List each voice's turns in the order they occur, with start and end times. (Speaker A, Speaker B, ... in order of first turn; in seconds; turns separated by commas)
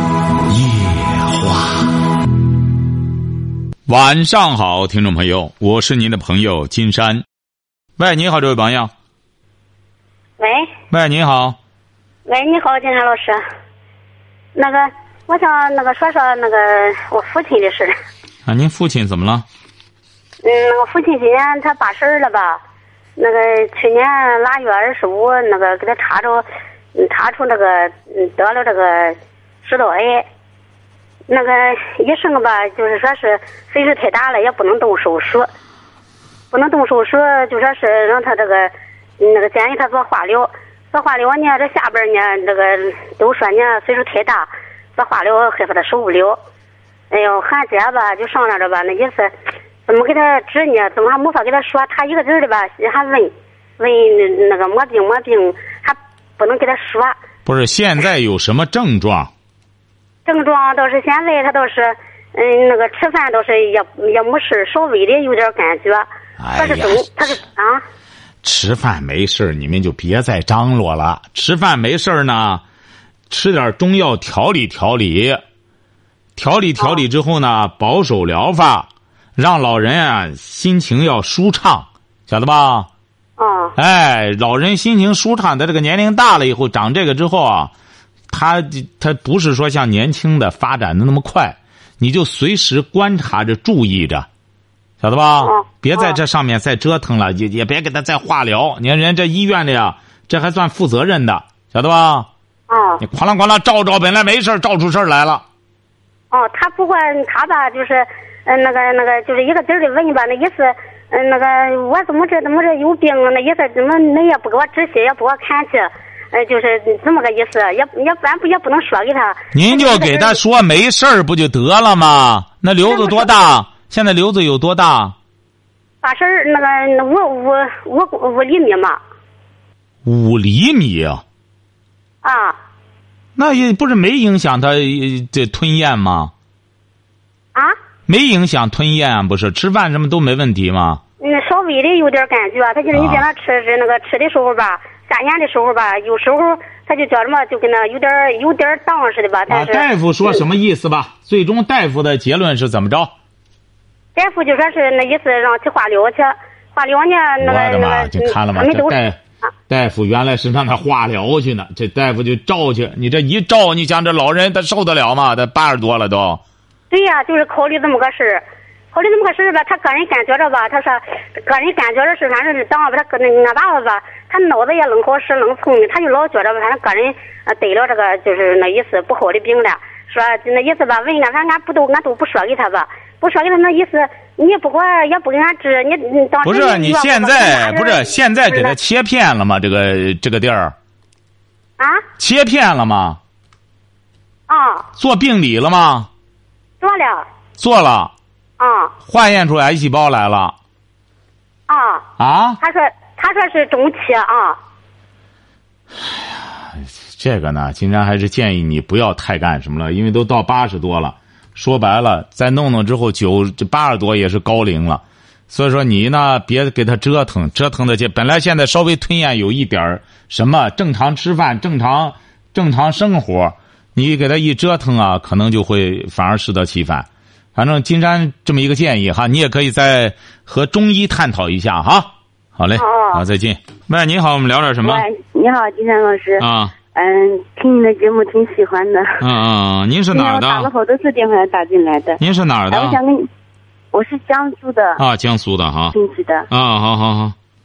Speaker A: 0.5-1.8, Speaker A: 3.9-7.2, Speaker A: 8.0-8.9, Speaker B: 10.4-10.7, Speaker A: 10.9-11.6, Speaker B: 12.2-13.4, Speaker B: 14.6-17.9, Speaker A: 18.4-19.4, Speaker B: 20.4-22.6, Speaker B: 23.2-26.4, Speaker B: 26.9-30.2, Speaker B: 31.3-35.5, Speaker B: 36.5-46.4, Speaker B: 47.1-49.3, Speaker B: 49.9-57.1, Speaker A: 57.5-59.3, Speaker B: 60.2-67.8, Speaker A: 66.4-67.1, Speaker A: 68.4-72.6, Speaker A: 73.3-75.4, Speaker A: 76.4-82.9, Speaker B: 83.4-83.7, Speaker A: 83.8-87.7, Speaker A: 88.3-94.3, Speaker A: 95.0-102.3, Speaker B: 95.4-96.2, Speaker B: 102.7-103.0, Speaker A: 103.0-105.4, Speaker B: 106.3-120.4, Speaker A: 119.5-125.2, Speaker B: 122.8-123.3, Speaker B: 126.0-129.0, Speaker A: 130.0-131.2, Speaker B: 132.2-132.6, Speaker A: 133.4-136.3, Speaker A: 138.1-141.0, Speaker B: 141.2-150.4, Speaker A: 142.9-143.2, Speaker A: 149.5-153.1, Speaker B: 154.2-158.9, Speaker A: 157.4-159.2, Speaker A: 159.7-166.4, Speaker B: 166.9-188.7, Speaker A: 186.4-190.7, Speaker B: 191.8-192.0, Speaker A: 192.2-193.2, Speaker B: 194.5-194.8, Speaker A: 195.0-196.1, Speaker B: 196.8-197.3, Speaker A: 197.6-198.1, Speaker B: 198.6-198.9, Speaker A: 199.1-200.6, Speaker B: 201.7-202.1, Speaker A: 202.2-202.6, Speaker B: 202.6-204.6, Speaker A: 205.9-235.0, Speaker B: 232.8-233.2, Speaker C: 234.8-239.2, Speaker A: 236.4-236.7, Speaker A: 239.2-240.7, Speaker C: 240.1-243.3, Speaker A: 242.2-243.0, Speaker C: 243.9-245.0, Speaker A: 245.0-245.9, Speaker C: 245.9-246.5, Speaker A: 246.5-247.3